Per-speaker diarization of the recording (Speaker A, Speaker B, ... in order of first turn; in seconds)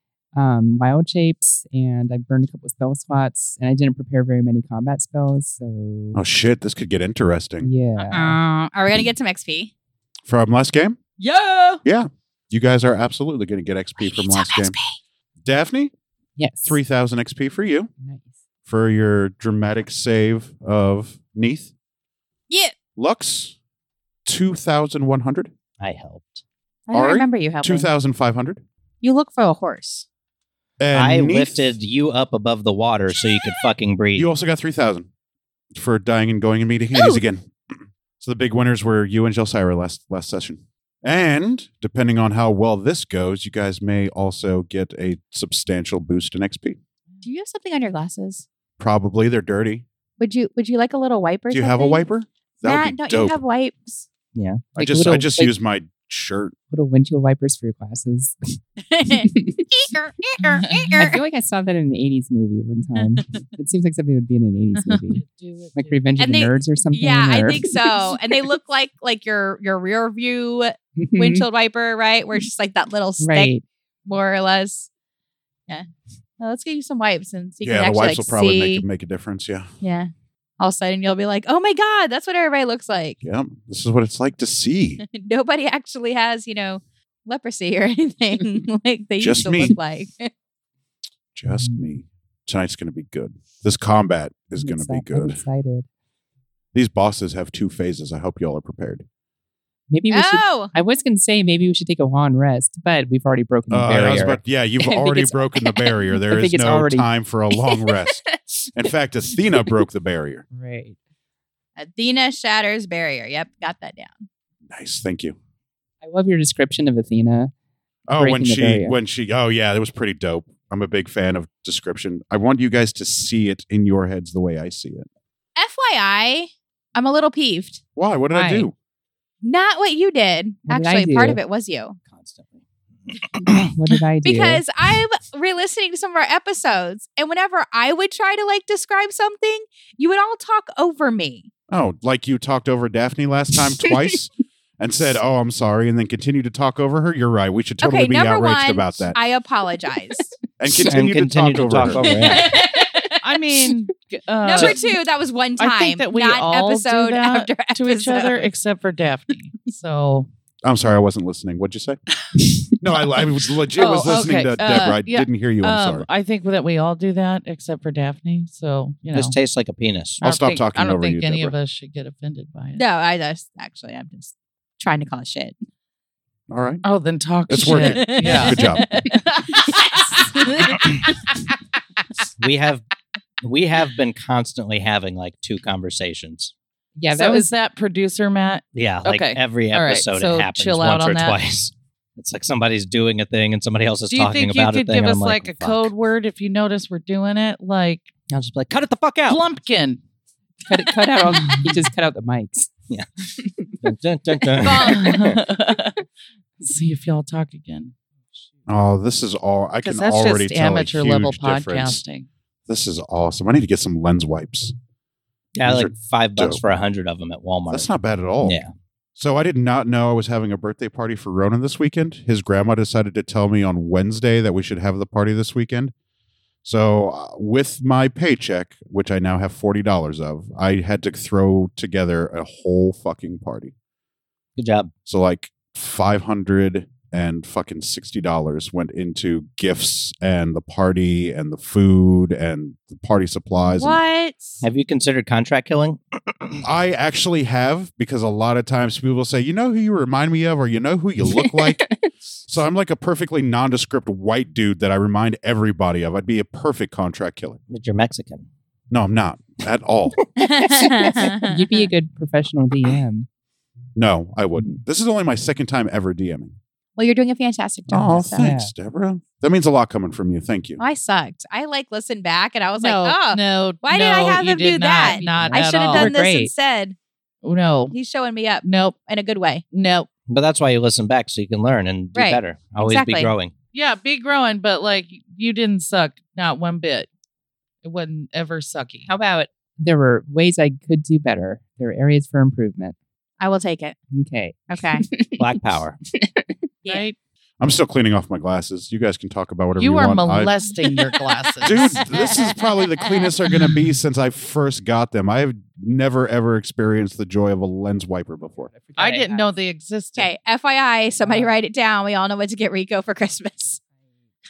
Speaker A: 0.3-6.2, 7.6-8.4, 16.4-16.8, 18.0-18.4, 54.8-55.5, 56.7-58.6, 59.1-59.6, 60.9-65.2, 65.8-68.0, 71.0-71.4, 73.2-73.7, 91.5-91.8, 94.6-95.9, 99.9-107.1, 110.5-111.0, 116.0-117.5, 118.2-119.0, 128.3-128.7, 130.7-131.4, 133.4-134.6, 187.0-187.5, 200.7-202.7, 203.4-203.7, 251.3-252.0, 260.6-263.3, 268.4-268.7, 275.0-276.5, 289.1-292.9, 294.1-295.5, 296.1-296.5, 308.4-309.6, 311.2-311.5
Speaker B: 6.1-7.7, 10.3-11.0, 11.8-14.8, 15.4-15.9, 16.6-17.9, 18.7-21.7, 22.9-23.6, 24.2-25.5, 26.9-28.6, 30.8-31.7, 34.1-35.1, 35.7-46.8, 48.8-49.8, 51.5-53.4, 54.8-56.5, 77.6-79.7, 83.2-85.0, 89.2-89.8, 91.3-95.4, 96.7-99.0, 103.7-108.2, 108.7-110.4, 114.7-115.3, 118.1-125.1, 128.0-128.7, 141.7-149.2, 150.6-152.4, 160.6-162.0, 162.8-166.1, 170.2-171.5, 176.5-176.8, 177.5-178.8, 208.7-212.0, 212.7-214.7, 215.6-216.6, 217.7-218.6, 219.2-225.9, 226.6-233.7, 235.1-244.0, 246.6-251.8, 252.5-257.6, 258.9-260.2, 263.9-266.5, 267.9-270.8, 297.6-300.5, 301.6-308.7
Speaker C: 8.0-9.7, 11.2-11.8, 14.0-15.0, 22.5-22.8, 26.9-27.9, 29.0-30.1, 47.2-48.5, 50.2-52.0, 52.6-54.0, 58.9-61.2, 66.2-73.5, 74.1-74.9, 76.4-78.8, 79.8-83.2, 85.0-90.3, 100.1-100.7, 107.7-108.7, 111.8-114.3, 125.6-127.8, 129.4-132.0, 134.2-141.5, 147.8-150.3, 151.8-153.3, 154.4-158.4, 164.6-165.0, 172.8-175.6, 177.6-181.1, 204.6-205.3, 243.6-244.6, 260.4-261.9, 267.0-268.5, 270.8-277.0, 277.9-279.6, 282.1-283.3, 293.4-294.0, 294.7-295.0, 302.1-302.5, 310.2-313.8
Speaker D: 25.8-26.4, 30.9-34.3, 54.3-54.6, 132.1-133.3, 150.8-152.5, 169.1-170.2, 182.4-182.8, 183.4-186.5, 188.7-195.9, 198.3-199.4, 203.8-205.3, 215.5-218.7, 234.6-234.9, 244.6-246.6, 257.7-258.5, 280.3-283.5, 295.4-296.0
Speaker E: 60.5-60.9, 65.1-66.0, 153.2-154.9, 155.6-160.3, 163.7-169.4, 170.2-172.8, 176.8-178.6, 187.1-191.4, 194.0-198.1, 199.2-200.0, 201.2-201.8, 204.9-206.0, 206.6-207.9, 209.8-212.3, 272.8-276.1, 277.4-277.9, 278.6-279.0, 279.7-280.1, 283.7-287.1, 287.8-289.1, 296.9-297.1, 299.8-302.1, 309.0-310.3